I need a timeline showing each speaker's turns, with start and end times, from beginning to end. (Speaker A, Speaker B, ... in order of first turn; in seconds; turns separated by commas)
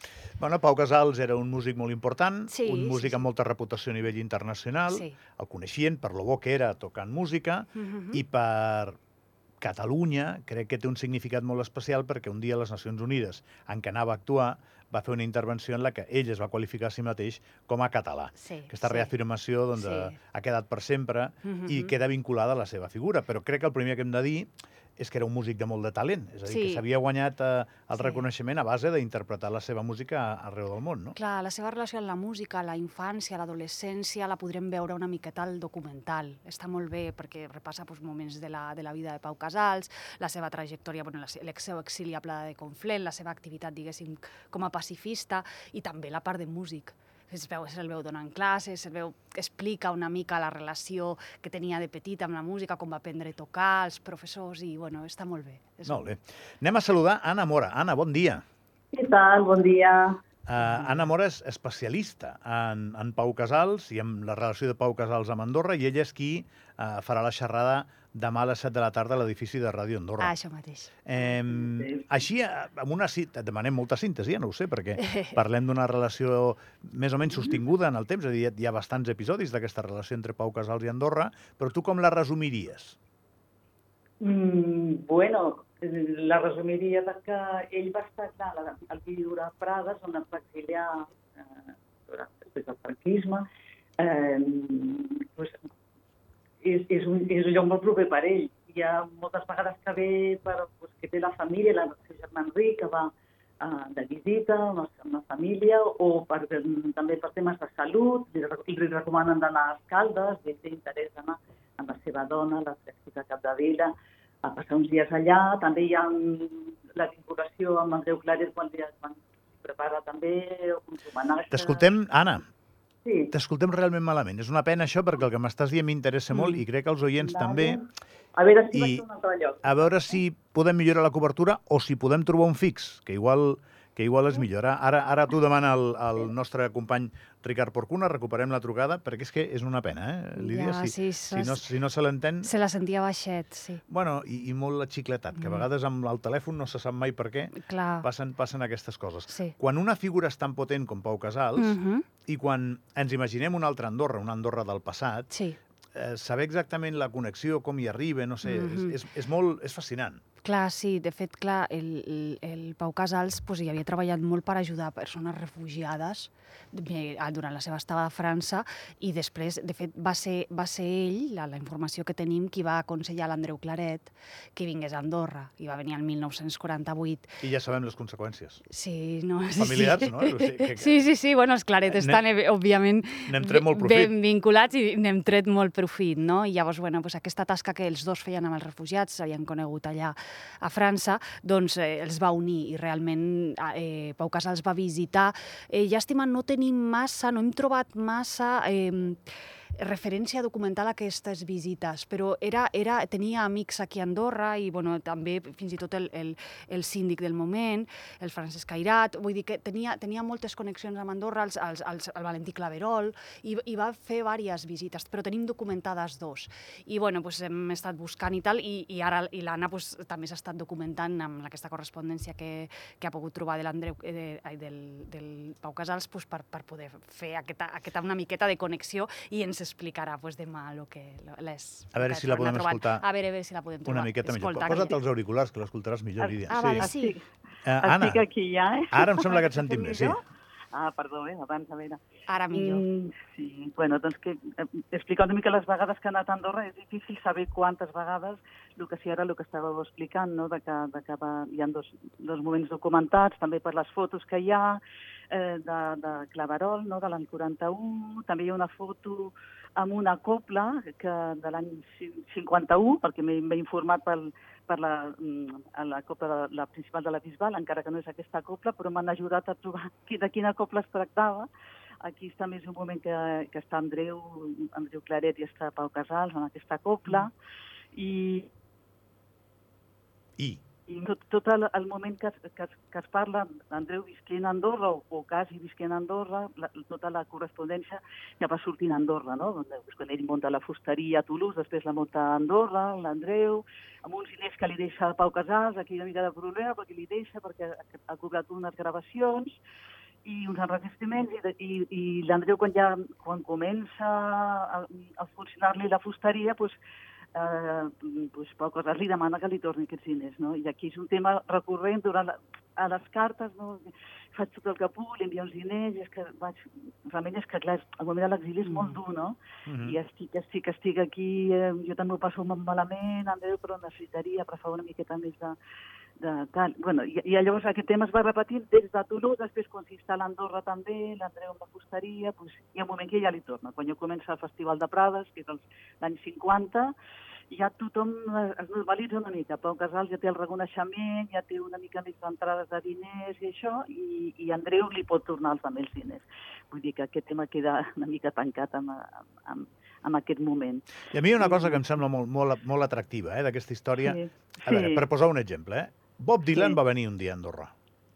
Speaker A: 0.4-9.0, Speaker B: 2.5-3.2, Speaker B: 4.9-5.2, Speaker B: 7.7-8.2, Speaker A: 9.6-31.2, Speaker B: 18.4-19.1, Speaker B: 19.7-20.2, Speaker B: 21.4-21.9, Speaker B: 26.5-26.8, Speaker B: 27.9-28.2, Speaker B: 31.1-56.1, Speaker A: 55.9-58.4, Speaker C: 58.9-60.2, Speaker A: 60.5-70.3, Speaker B: 70.2-70.9, Speaker A: 71.0-83.0, Speaker C: 71.2-72.1, Speaker B: 75.0-75.3, Speaker C: 84.2-93.5, Speaker C: 94.0-95.6, Speaker C: 96.6-113.9, Speaker C: 114.4-121.9, Speaker A: 121.5-122.5, Speaker C: 123.0-123.3, Speaker A: 123.3-127.8, Speaker C: 127.2-129.8, Speaker A: 128.7-129.0, Speaker A: 129.6-142.5, Speaker B: 140.4-141.6, Speaker B: 142.4-143.8, Speaker A: 143.9-151.8, Speaker B: 145.4-145.7, Speaker B: 147.6-148.1, Speaker B: 149.3-149.6, Speaker B: 151.6-152.1, Speaker A: 152.3-155.3, Speaker B: 155.3-155.6, Speaker A: 155.9-160.2, Speaker B: 158.4-159.0, Speaker B: 160.4-177.4, Speaker A: 177.4-178.6, Speaker B: 178.7-235.0, Speaker A: 179.6-181.1, Speaker A: 181.9-182.2, Speaker A: 183.3-184.1, Speaker A: 231.9-233.0, Speaker A: 233.8-236.9, Speaker C: 236.2-237.2, Speaker B: 236.5-237.2, Speaker A: 237.7-238.2, Speaker C: 237.8-240.2, Speaker A: 238.9-240.2, Speaker C: 240.7-242.0, Speaker B: 242.3-242.8, Speaker C: 242.5-271.5, Speaker C: 272.0-277.3, Speaker C: 277.9-278.5, Speaker A: 280.4-280.6, Speaker C: 280.9-299.6, Speaker C: 300.2-306.8, Speaker C: 307.3-325.6, Speaker B: 318.6-319.0, Speaker A: 319.7-320.0, Speaker C: 326.2-336.9, Speaker C: 337.5-351.8, Speaker A: 351.1-357.7, Speaker C: 354.0-355.0